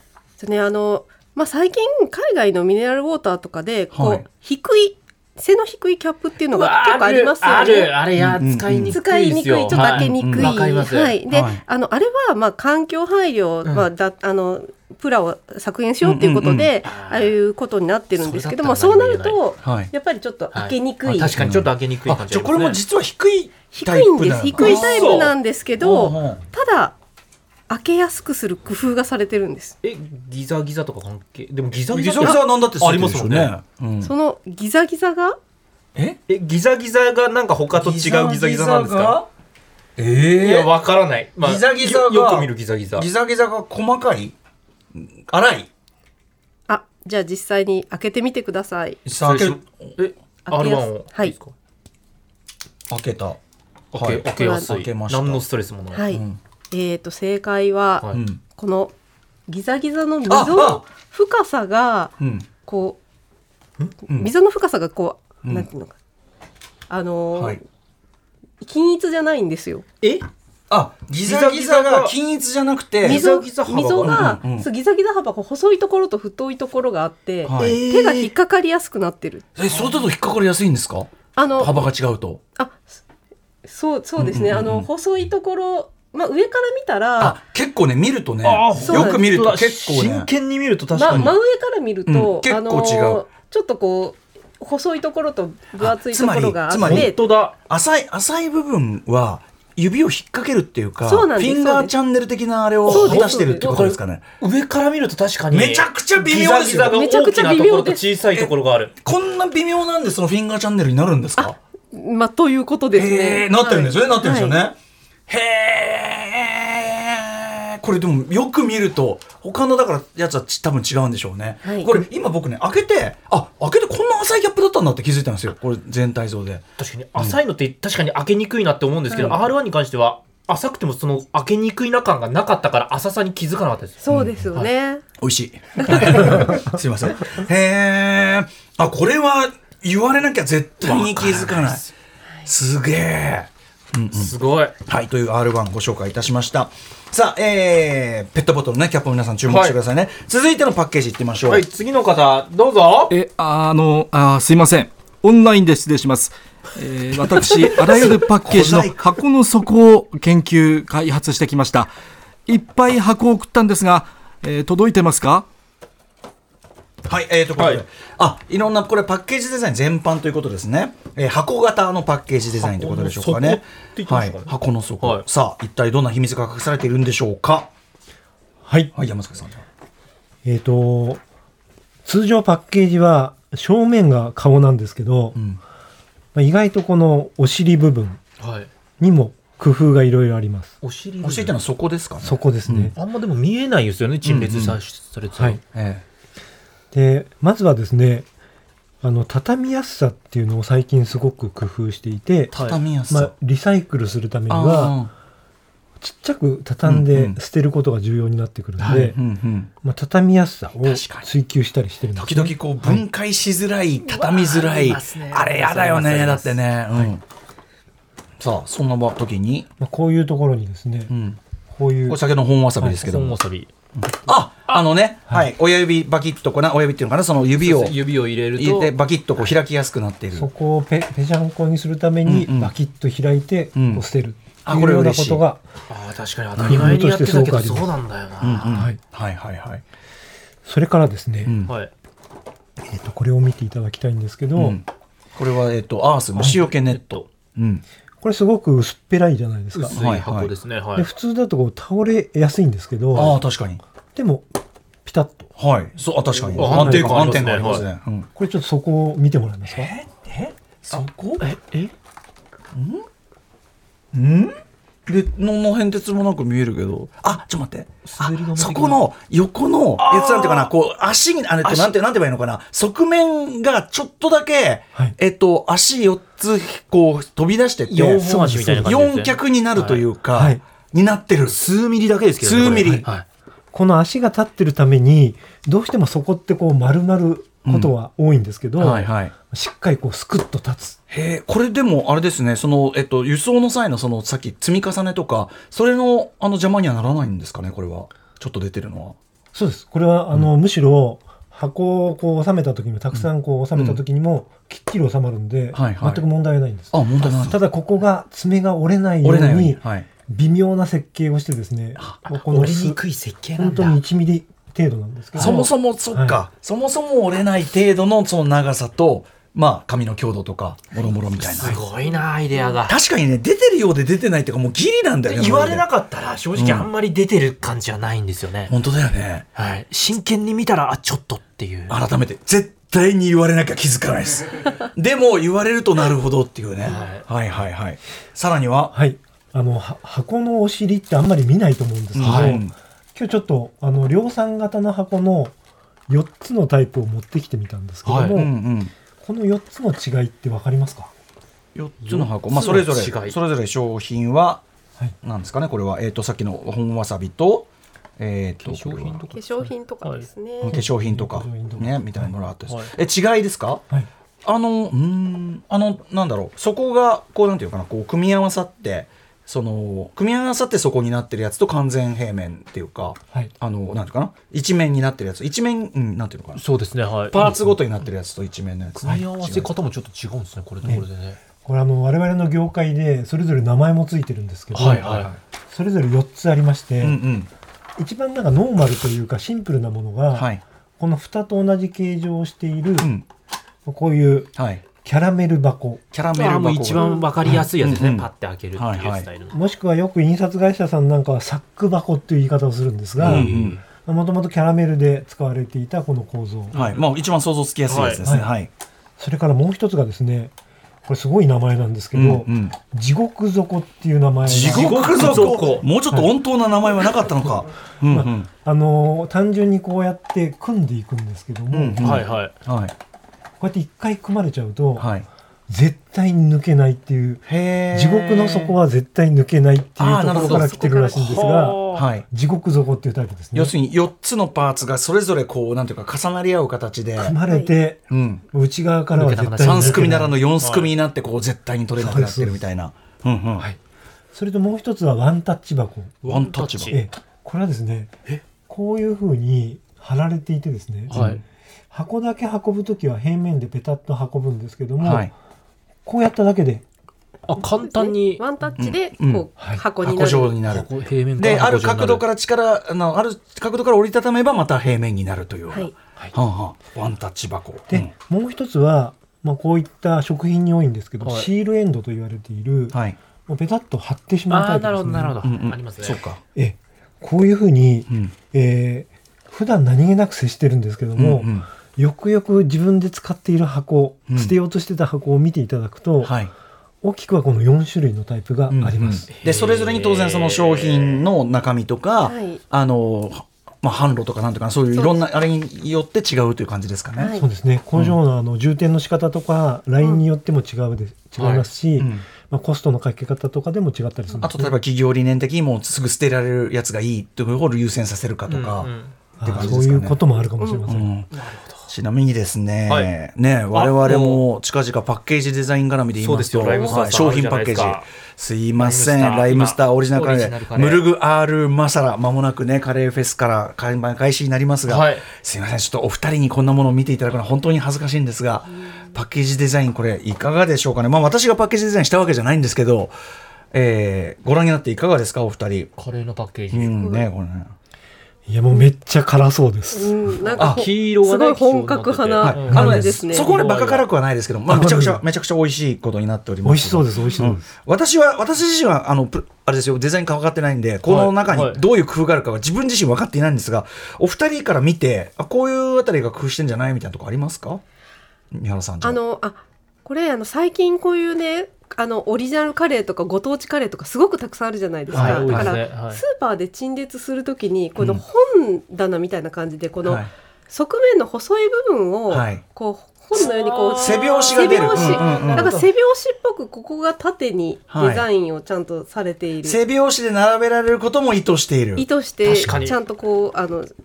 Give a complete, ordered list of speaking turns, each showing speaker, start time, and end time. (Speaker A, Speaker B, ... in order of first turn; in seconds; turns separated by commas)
Speaker A: 0.4-8.0, Speaker B: 3.9-4.2, Speaker C: 6.5-11.2, Speaker B: 8.2-9.0, Speaker A: 8.9-21.4, Speaker B: 9.7-10.6, Speaker B: 11.3-11.6, Speaker B: 16.0-16.7, Speaker C: 16.8-17.3, Speaker C: 18.1-19.4, Speaker B: 19.6-19.9, Speaker C: 20.5-22.8, Speaker B: 21.3-26.4, Speaker A: 23.7-26.9, Speaker C: 24.6-25.3, Speaker A: 27.7-29.8, Speaker C: 29.8-33.5, Speaker B: 31.9-34.1, Speaker A: 34.0-35.4, Speaker C: 36.3-39.2, Speaker B: 37.7-39.3, Speaker B: 40.0-40.7, Speaker C: 40.3-43.1, Speaker B: 41.4-44.4, Speaker B: 44.9-45.7, Speaker A: 46.7-49.0, Speaker B: 49.1-49.9, Speaker C: 49.2-51.5, Speaker A: 50.5-51.4, Speaker B: 52.9-53.4, Speaker C: 53.9-56.0, Speaker B: 53.9-55.4, Speaker A: 54.4-54.7, Speaker A: 55.9-58.9, Speaker B: 56.1-56.4, Speaker B: 58.1-58.4, Speaker A: 59.5-62.1, Speaker B: 60.3-60.8, Speaker B: 62.2-62.5, Speaker A: 62.7-63.0, Speaker A: 64.1-66.0, Speaker A: 66.9-67.6, Speaker A: 68.6-69.8, Speaker B: 70.7-74.7, Speaker C: 71.2-72.1, Speaker C: 73.0-74.3, Speaker A: 73.0-79.5, Speaker B: 77.4-77.8, Speaker C: 77.5-78.3, Speaker B: 79.6-82.4, Speaker A: 81.4-81.9, Speaker A: 82.6-83.0, Speaker A: 83.7-87.4, Speaker B: 84.2-84.9, Speaker B: 87.2-90.3, Speaker C: 88.4-91.3, Speaker A: 88.9-89.2, Speaker A: 90.9-97.2, Speaker B: 91.1-91.4, Speaker B: 92.1-93.2, Speaker B: 95.8-97.1, Speaker C: 96.8-97.5, Speaker B: 97.7-104.2, Speaker A: 101.0-101.9, Speaker A: 102.9-103.8, Speaker C: 102.9-108.9, Speaker B: 105.5-107.0, Speaker A: 106.9-108.0, Speaker B: 108.3-111.6, Speaker A: 111.4-114.6, Speaker B: 113.0-114.8, Speaker B: 115.3-126.7, Speaker A: 121.6-122.0, Speaker C: 126.8-134.0, Speaker A: 134.0-135.0, Speaker B: 134.1-134.4, Speaker B: 135.2-141.8, Speaker C: 140.8-141.9, Speaker B: 142.5-144.3, Speaker C: 144.1-144.7, Speaker B: 144.9-151.7, Speaker C: 149.5-149.8, Speaker C: 151.5-153.1, Speaker D: 153.1-161.9, Speaker B: 157.9-159.0, Speaker D: 162.5-165.5, Speaker B: 167.1-177.7, Speaker C: 167.6-167.8, Speaker C: 172.6-175.2, Speaker E: 178.7-178.9, Speaker B: 178.9-179.7, Speaker E: 180.4-181.2, Speaker E: 182.1-185.4, Speaker B: 185.3-185.6, Speaker E: 186.3-188.2, Speaker C: 188.4-188.7, Speaker E: 189.0-190.7, Speaker C: 190.8-191.6, Speaker B: 191.2-192.9, Speaker E: 192.2-192.9, Speaker C: 193.0-195.6, Speaker B: 194.2-194.8, Speaker B: 195.7-196.0, Speaker E: 196.9-198.3, Speaker E: 199.0-202.6, Speaker B: 202.5-203.3, Speaker C: 202.5-202.8, Speaker E: 203.1-205.0, Speaker B: 204.5-205.1, Speaker E: 206.0-209.2, Speaker B: 206.8-207.4, Speaker B: 208.8-209.7, Speaker E: 209.8-213.0, Speaker B: 210.8-211.3, Speaker B: 212.2-217.2, Speaker C: 214.1-216.6, Speaker B: 218.4-219.7, Speaker E: 219.8-221.1, Speaker B: 221.1-221.4, Speaker E: 221.7-222.2, Speaker B: 222.1-223.4, Speaker C: 222.8-223.7, Speaker B: 224.0-228.0, Speaker C: 227.6-228.9, Speaker B: 228.5-230.5, Speaker E: 230.3-235.6, Speaker B: 232.2-232.7, Speaker B: 233.8-234.0, Speaker B: 234.7-235.4, Speaker C: 235.9-238.8, Speaker B: 236.6-237.0, Speaker E: 236.6-237.9, Speaker B: 238.4-239.8, Speaker E: 238.7-239.0, Speaker E: 240.7-241.5, Speaker B: 241.4-241.7, Speaker C: 241.7-241.9, Speaker E: 242.8-244.8, Speaker B: 244.6-244.8, Speaker B: 245.4-247.8, Speaker C: 246.4-247.3, Speaker E: 248.2-249.9, Speaker C: 249.7-251.1, Speaker B: 249.9-250.5, Speaker E: 251.0-253.4, Speaker B: 253.1-253.8, Speaker E: 254.2-254.5, Speaker E: 255.1-255.5, Speaker B: 255.6-258.3, Speaker C: 256.5-257.9, Speaker E: 256.5-257.5, Speaker E: 258.4-259.9, Speaker B: 259.7-261.4, Speaker C: 261.4-261.9, Speaker B: 262.7-263.1, Speaker B: 264.1-278.3, Speaker C: 268.2-269.0, Speaker C: 270.0-270.7, Speaker C: 271.6-271.9, Speaker C: 277.9-280.1, Speaker E: 278.2-278.9, Speaker B: 278.8-281.6, Speaker E: 280.3-280.6, Speaker C: 281.5-283.2, Speaker B: 282.4-283.1, Speaker E: 283.7-291.0, Speaker B: 287.6-287.9, Speaker B: 288.8-289.3, Speaker B: 291.1-299.2, Speaker E: 299.5-313.0, Speaker B: 303.1-304.0, Speaker B: 305.7-306.2, Speaker B: 306.9-307.6, Speaker B: 309.2-310.1, Speaker C: 312.2-314.0, Speaker E: 313.6-316.4, Speaker B: 315.4-321.8, Speaker C: 315.4-315.6, Speaker C: 321.4-322.9, Speaker B: 322.9-325.9, Speaker C: 325.3-328.8, Speaker B: 326.6-326.9, Speaker B: 328.7-329.5, Speaker C: 329.6-332.0, Speaker B: 331.9-338.9, Speaker C: 336.8-337.2, Speaker E: 338.9-345.6, Speaker B: 342.1-342.7, Speaker C: 342.2-342.6, Speaker E: 346.1-348.5, Speaker C: 348.1-348.4, Speaker B: 348.3-348.9, Speaker E: 349.2-351.1, Speaker B: 351.8-354.6, Speaker C: 352.0-353.4, Speaker B: 355.2-357.7, Speaker B: 358.2-359.2, Speaker C: 358.6-360.3, Speaker A: 359.3-360.8, Speaker B: 360.6-363.8, Speaker E: 360.7-362.3, Speaker B: 364.4-376.6, Speaker C: 376.6-377.7, Speaker B: 377.3-379.7, Speaker C: 379.0-381.4, Speaker E: 381.6-385.1, Speaker C: 384.7-385.3, Speaker B: 384.9-385.4, Speaker E: 385.7-387.2, Speaker B: 387.0-387.5, Speaker E: 388.0-393.1, Speaker B: 390.3-390.6, Speaker B: 393.0-393.3, Speaker E: 393.9-396.0, Speaker B: 394.6-394.8, Speaker B: 396.1-399.3, Speaker C: 396.3-399.6, Speaker A: 397.0-397.3, Speaker E: 399.5-406.8, Speaker C: 403.2-403.8, Speaker B: 403.2-403.8, Speaker C: 406.7-407.0, Speaker B: 406.7-408.7, Speaker C: 407.9-408.2, Speaker E: 408.2-408.5, Speaker E: 409.2-410.5, Speaker E: 411.1-416.3, Speaker B: 412.1-412.8, Speaker B: 414.4-418.5, Speaker C: 414.5-415.9, Speaker E: 418.1-422.2, Speaker B: 421.7-422.9, Speaker C: 422.0-422.5, Speaker E: 423.6-425.1, Speaker B: 425.0-425.3, Speaker E: 425.7-433.7, Speaker B: 427.5-428.8, Speaker B: 430.0-431.4, Speaker C: 430.4-432.1, Speaker A: 430.7-431.6, Speaker B: 431.9-432.2, Speaker B: 433.5-437.4, Speaker E: 437.2-440.4, Speaker A: 437.5-437.7, Speaker B: 438.1-438.4, Speaker C: 439.1-440.9, Speaker B: 439.6-443.7, Speaker E: 442.0-442.6, Speaker E: 444.3-446.2, Speaker C: 446.2-447.0, Speaker B: 446.2-447.0, Speaker E: 446.9-451.1, Speaker C: 451.1-451.4, Speaker B: 451.1-451.4, Speaker E: 451.9-455.3, Speaker B: 455.0-455.3, Speaker E: 456.1-456.9, Speaker C: 457.5-458.4, Speaker A: 457.6-460.6, Speaker B: 458.8-468.1, Speaker C: 460.7-462.3, Speaker E: 467.9-475.4, Speaker C: 471.2-471.5, Speaker B: 472.9-473.2, Speaker C: 474.5-476.2, Speaker B: 475.4-476.4, Speaker E: 476.6-486.4, Speaker B: 478.1-478.4, Speaker B: 481.2-481.7, Speaker B: 484.3-484.6, Speaker B: 486.2-486.5, Speaker E: 487.0-489.3, Speaker B: 488.7-497.3, Speaker C: 489.3-491.2, Speaker A: 492.2-492.6, Speaker A: 494.9-495.2, Speaker A: 497.2-497.5, Speaker E: 497.3-504.8, Speaker C: 501.4-501.7, Speaker B: 502.0-502.3, Speaker B: 504.4-510.2, Speaker C: 508.5-509.7, Speaker E: 509.4-511.2, Speaker A: 510.6-510.9, Speaker B: 510.9-511.3, Speaker C: 511.3-511.9, Speaker B: 511.9-533.1, Speaker C: 513.7-514.4, Speaker C: 516.2-518.1, Speaker A: 516.7-517.0, Speaker C: 518.8-521.0, Speaker C: 524.9-525.3, Speaker B: 533.7-535.9, Speaker C: 536.0-537.0, Speaker B: 536.7-537.7, Speaker A: 537.0-537.2, Speaker E: 538.5-540.3, Speaker A: 539.9-543.5, Speaker C: 540.5-544.1, Speaker B: 540.6-540.9, Speaker B: 542.4-557.8, Speaker E: 542.7-543.1, Speaker E: 544.7-545.2, Speaker E: 546.6-547.7, Speaker C: 551.1-551.8, Speaker B: 558.5-559.2, Speaker A: 559.0-579.8, Speaker B: 565.1-565.8, Speaker C: 565.1-566.2, Speaker B: 572.3-572.6, Speaker C: 573.4-575.9, Speaker B: 574.0-575.8, Speaker B: 577.9-578.3, Speaker B: 579.6-582.1, Speaker A: 582.0-583.9, Speaker C: 582.5-583.0